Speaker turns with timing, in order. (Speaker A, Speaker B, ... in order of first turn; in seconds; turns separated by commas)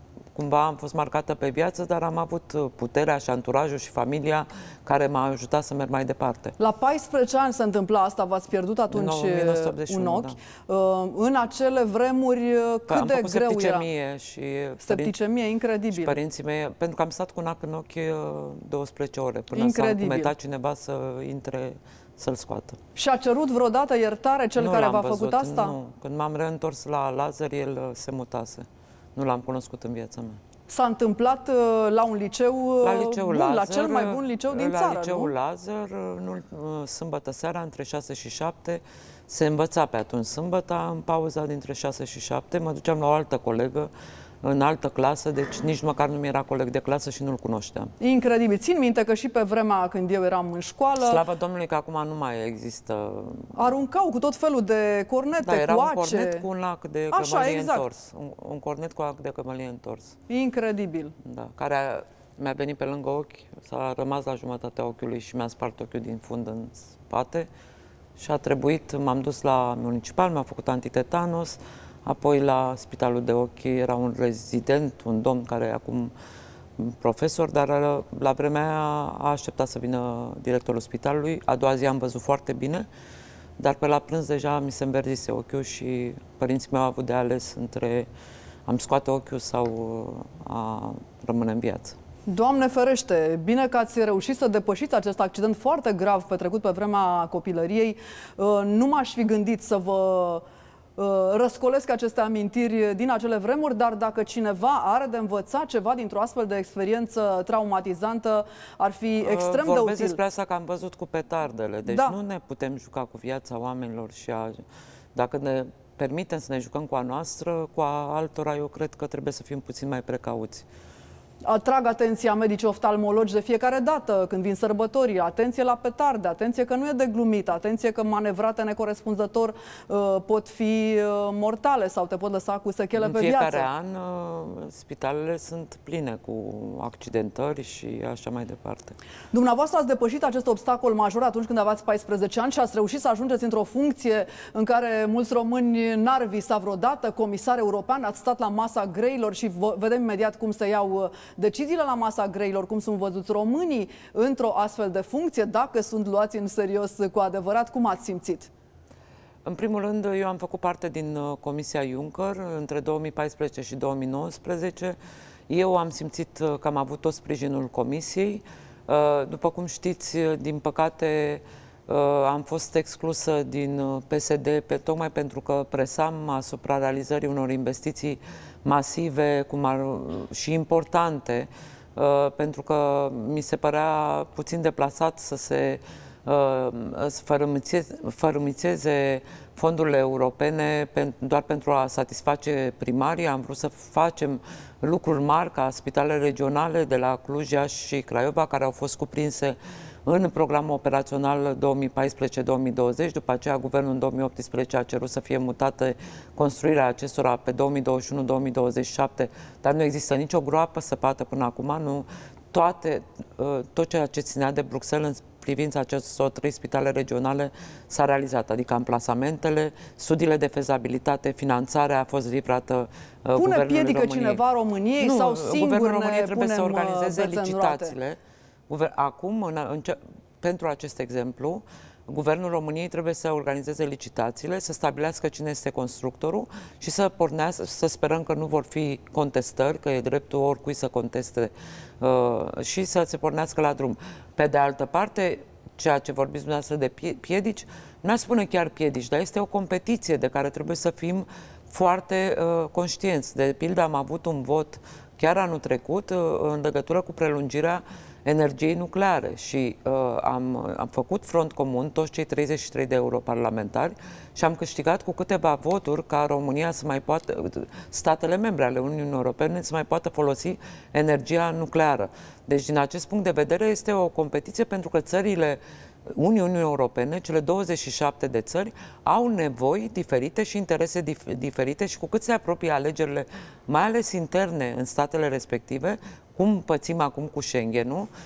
Speaker A: 0.3-6.5, Speaker B: 6.6-13.9, Speaker A: 8.9-10.4, Speaker A: 12.9-15.1, Speaker B: 14.8-16.2, Speaker A: 15.9-22.8, Speaker B: 19.5-20.3, Speaker B: 22.9-25.7, Speaker A: 24.5-30.4, Speaker B: 30.7-35.3, Speaker A: 32.8-43.9, Speaker A: 44.4-47.9, Speaker B: 48.0-51.2, Speaker A: 51.0-53.7, Speaker B: 53.5-56.5, Speaker A: 55.4-60.1, Speaker B: 57.1-57.8, Speaker B: 60.3-61.1, Speaker A: 61.2-67.5, Speaker A: 68.2-76.1, Speaker A: 76.8-82.9, Speaker A: 83.6-88.1, Speaker A: 88.7-91.9, Speaker B: 92.3-100.4, Speaker B: 101.0-110.2, Speaker A: 109.2-114.5, Speaker B: 111.8-112.2, Speaker A: 115.1-120.7, Speaker B: 121.4-133.7, Speaker A: 132.9-138.9, Speaker B: 139.3-158.5, Speaker A: 159.4-164.9, Speaker A: 165.5-224.4, Speaker B: 223.3-227.9, Speaker A: 225.0-228.2, Speaker A: 228.7-288.1